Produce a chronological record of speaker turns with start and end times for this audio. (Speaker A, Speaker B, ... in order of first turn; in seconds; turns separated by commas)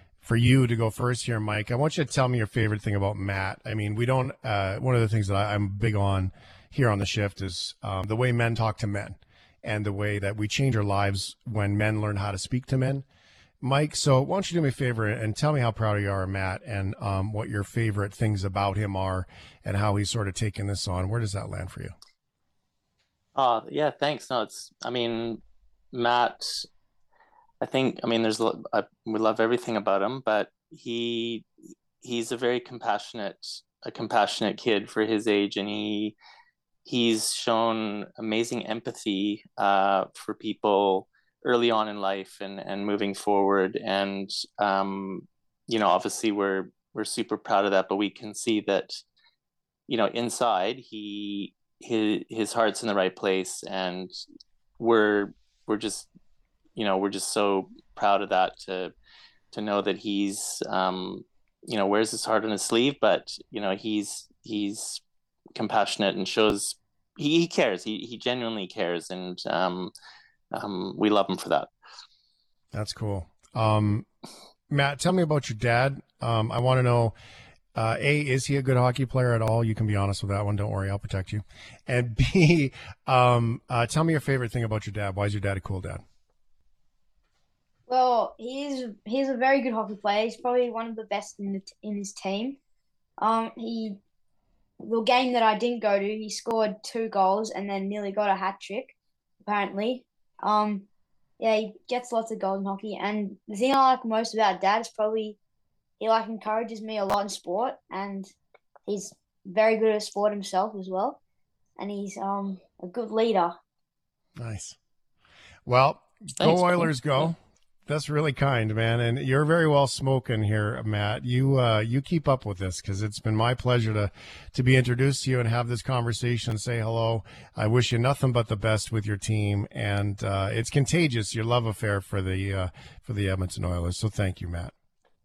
Speaker A: 0.2-13.0, Speaker A: 13.6-21.9, Speaker B: 23.4-25.4, Speaker B: 25.9-26.6, Speaker B: 27.6-31.5, Speaker B: 32.0-36.2, Speaker B: 36.9-49.0, Speaker B: 49.9-54.1, Speaker B: 54.8-56.1, Speaker B: 56.8-58.9, Speaker B: 59.5-65.0, Speaker B: 65.6-69.9, Speaker B: 70.5-71.7, Speaker A: 72.7-74.1, Speaker A: 74.7-77.1, Speaker A: 77.8-86.0, Speaker C: 87.9-92.6, Speaker C: 93.2-94.0, Speaker C: 94.8-100.9, Speaker C: 101.4-105.4, Speaker C: 106.0-108.3, Speaker C: 108.9-111.2, Speaker C: 111.8-113.5, Speaker A: 114.4-114.8, Speaker A: 115.7-134.7, Speaker B: 116.4-117.3